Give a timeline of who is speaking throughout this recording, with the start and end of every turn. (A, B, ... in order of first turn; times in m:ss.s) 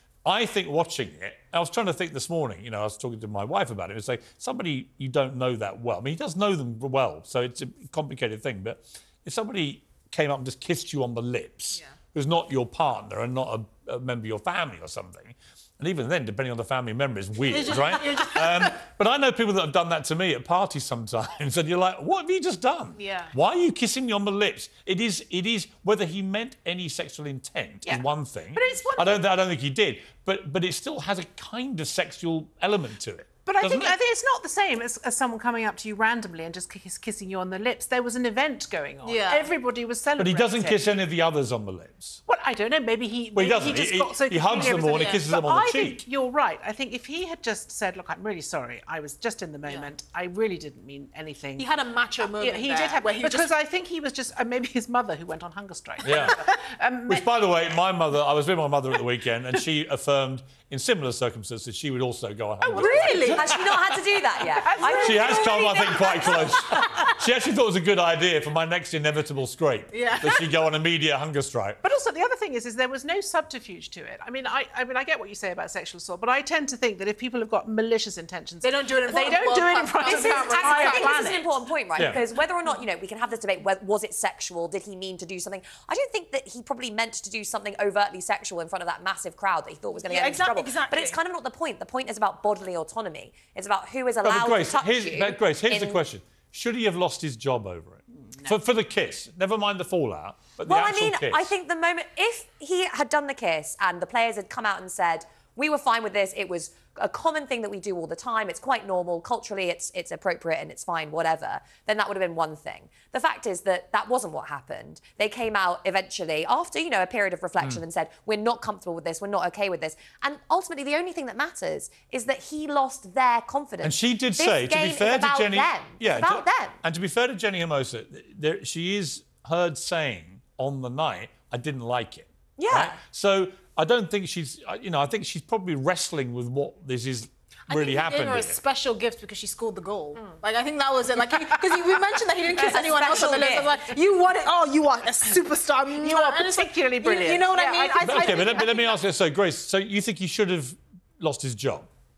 0:00.2-0:34.0 A
0:17.5-0:18.7 B
0:23.0-0:23.3 C
0:27.9-0:29.2 B
0:33.5-0:40.9 B
0:39.0-0:39.5 C
0:40.2-0:42.2 A
0:42.3-0:51.7 B
0:43.4-0:46.0 A
0:44.8-0:45.2 C
0:51.6-0:53.5 C
0:52.2-0:57.3 B
0:56.0-0:56.4 A
0:57.1-1:03.8 A
1:02.6-1:03.6 B
1:02.7-1:03.5 C
1:03.3-1:06.9 D
1:04.4-1:07.1 B
1:04.8-1:11.8 A
1:09.9-1:10.5 C
1:11.8-1:21.5 B
1:18.6-1:21.5 C
1:20.0-1:36.0 D
1:30.1-1:31.2 C
1:34.2-1:41.5 A
1:40.7-2:06.8 D
2:03.8-2:18.6 A
2:12.6-2:13.0 D
2:17.7-2:29.0 C
2:21.7-2:22.0 B
2:22.5-2:23.8 D
2:25.9-2:28.3 B
2:27.5-2:28.6 D
2:28.0-2:31.9 A